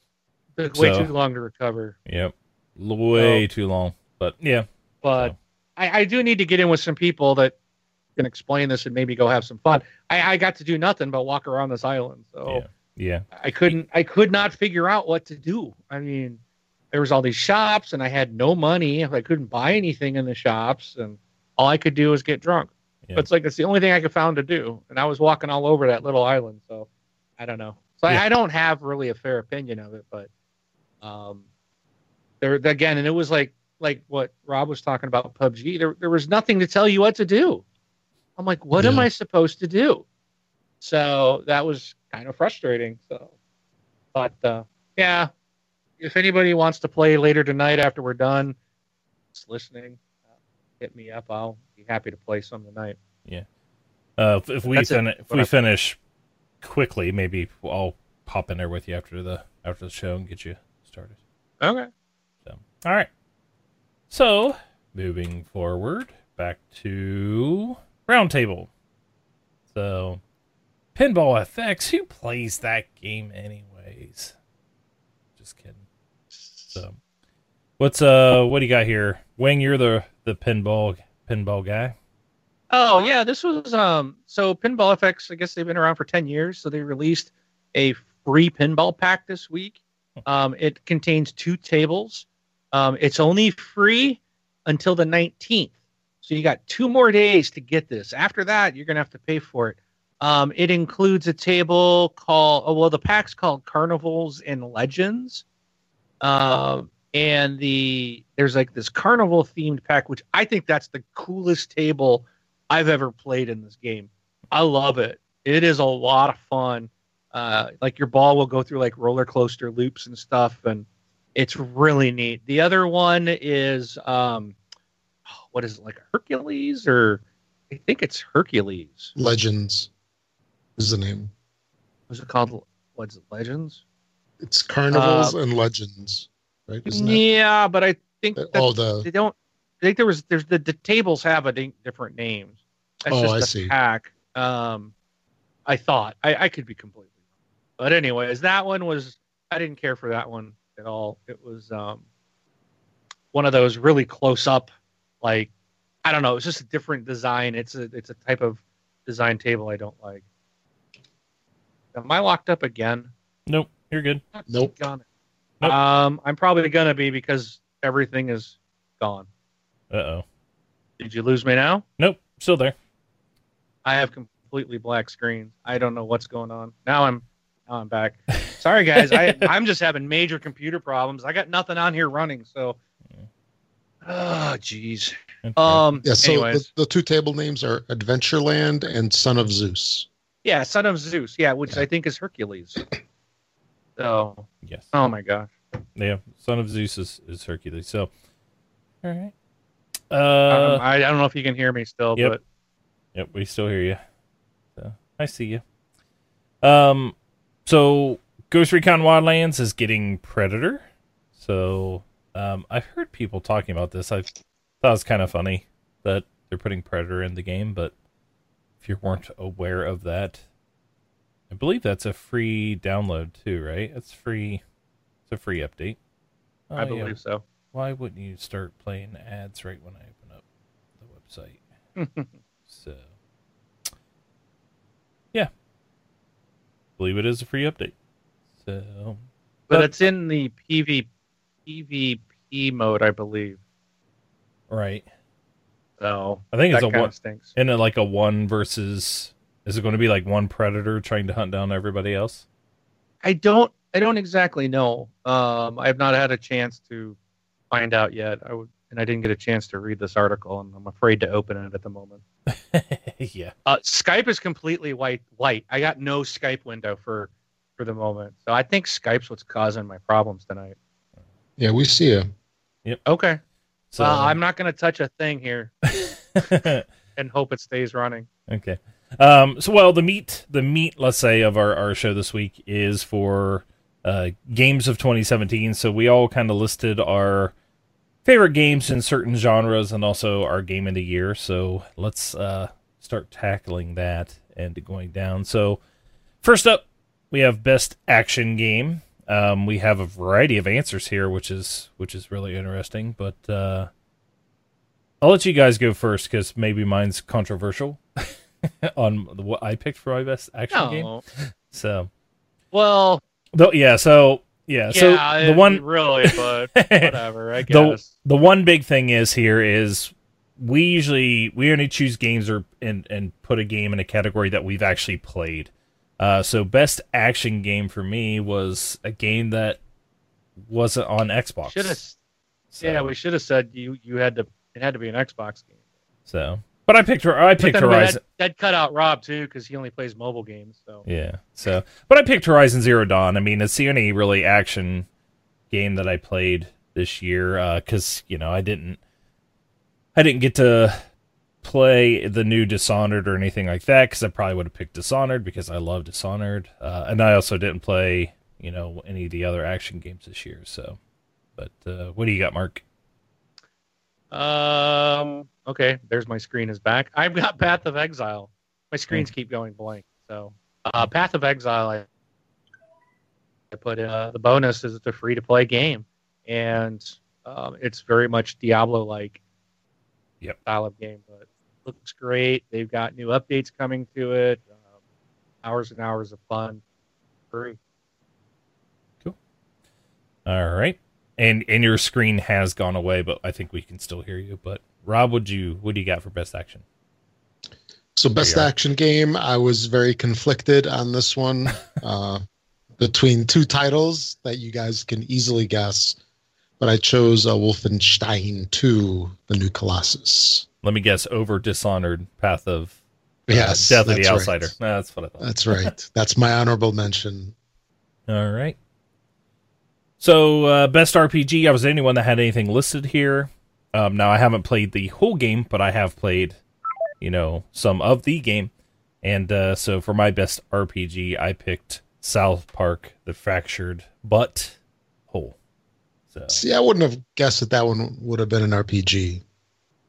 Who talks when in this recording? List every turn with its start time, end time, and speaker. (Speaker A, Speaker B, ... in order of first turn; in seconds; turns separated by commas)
Speaker A: 0.6-2.0, Speaker B: 0.7-1.1, Speaker B: 2.1-5.3, Speaker A: 3.2-3.4, Speaker A: 5.0-7.5, Speaker A: 8.2-12.6, Speaker B: 12.5-13.8, Speaker A: 13.4-16.4, Speaker A: 16.9-26.9, Speaker A: 27.4-30.3, Speaker A: 31.0-31.4, Speaker A: 32.4-37.6, Speaker A: 38.4-40.0, Speaker C: 38.8-39.1, Speaker A: 40.8-43.3, Speaker A: 44.1-45.3, Speaker A: 46.0-48.6, Speaker A: 49.3-50.0, Speaker A: 50.8-53.0, Speaker B: 54.2-56.0, Speaker A: 54.7-55.5, Speaker B: 56.6-61.1, Speaker A: 61.6-61.9, Speaker B: 62.5-63.1, Speaker B: 64.1-68.7, Speaker B: 69.7-70.2, Speaker B: 71.0-74.3, Speaker B: 75.4-75.8, Speaker A: 76.5-76.8, Speaker B: 77.8-82.0, Speaker A: 82.7-95.7, Speaker A: 96.2-105.4, Speaker A: 106.2-124.6, Speaker A: 125.3-129.1, Speaker C: 129.2-129.9, Speaker C: 130.8-131.3, Speaker A: 132.1-133.8, Speaker C: 134.4-137.2, Speaker A: 134.9-135.4, Speaker A: 136.9-142.5, Speaker C: 138.4-139.1, Speaker A: 143.1-144.9, Speaker C: 143.1-143.7, Speaker A: 145.7-147.1, Speaker A: 147.8-152.0, Speaker A: 153.3-154.7, Speaker A: 155.2-155.5, Speaker A: 156.0-160.2, Speaker A: 161.9-163.1, Speaker B: 163.5-164.2, Speaker A: 164.3-165.0, Speaker A: 165.6-169.3, Speaker B: 169.9-170.2, Speaker A: 171.0-171.8, Speaker B: 172.0-172.8, Speaker A: 173.8-182.8, Speaker B: 179.2-179.5, Speaker A: 184.1-186.7, Speaker B: 185.4-185.8, Speaker C: 186.0-190.1, Speaker A: 190.4-192.8, Speaker A: 194.0-195.5, Speaker B: 194.6-194.9, Speaker B: 196.0-198.1, Speaker B: 199.0-199.3, Speaker B: 200.1-200.8, Speaker A: 200.5-202.4, Speaker B: 203.2-204.0, Speaker B: 204.8-205.6, Speaker B: 206.6-207.2, Speaker B: 207.7-210.8, Speaker B: 211.4-214.3, Speaker B: 214.8-217.9, Speaker B: 218.8-220.4, Speaker B: 221.5-224.6, Speaker B: 225.3-226.0, Speaker B: 226.7-227.2, Speaker A: 226.8-227.4, Speaker B: 227.7-230.4, Speaker B: 231.0-231.6, Speaker A: 232.0-232.3, Speaker B: 232.7-233.0, Speaker B: 237.0-237.9, Speaker B: 238.6-239.9, Speaker A: 239.7-241.1, Speaker A: 241.7-243.6, Speaker B: 244.7-245.1, Speaker A: 246.0-247.5, Speaker B: 246.5-252.4, Speaker A: 253.2-257.2, Speaker A: 257.7-262.2, Speaker B: 262.5-263.5, Speaker A: 263.7-270.8, Speaker C: 271.6-272.3, Speaker A: 273.1-273.4, Speaker B: 273.9-274.4, Speaker A: 274.0-275.7, Speaker B: 275.9-276.8, Speaker A: 277.2-278.3, Speaker B: 278.5-287.5, Speaker B: 288.2-295.8, Speaker B: 296.4-303.9, Speaker B: 305.2-312.1, Speaker A: 310.7-311.2, Speaker A: 312.7-313.2, Speaker B: 313.5-317.2, Speaker A: 314.9-318.1, Speaker B: 317.7-329.8, Speaker B: 330.7-332.0, Speaker A: 331.7-332.2, Speaker B: 332.7-333.1, Speaker A: 332.8-335.6, Speaker B: 336.3-338.2, Speaker A: 337.6-341.1, Speaker B: 341.1-345.1, Speaker B: 345.7-349.0, Speaker B: 350.1-351.0, Speaker B: 351.6-361.0, Speaker B: 361.6-362.8, Speaker A: 364.3-372.1, Speaker A: 373.7-379.4, Speaker A: 380.6-384.6, Speaker A: 385.6-386.8, Speaker B: 390.5-396.8, Speaker C: 398.1-402.4, Speaker B: 398.4-398.7, Speaker C: 403.0-406.2, Speaker C: 406.8-410.7, Speaker B: 410.8-413.0, Speaker B: 413.5-415.9, Speaker C: 413.5-414.7, Speaker C: 415.4-417.5, Speaker B: 418.3-418.8, Speaker B: 420.2-426.6, Speaker B: 427.2-428.7, Speaker B: 429.2-434.8, Speaker B: 435.3-435.6, Speaker B: 436.3-436.6, Speaker C: 436.5-439.4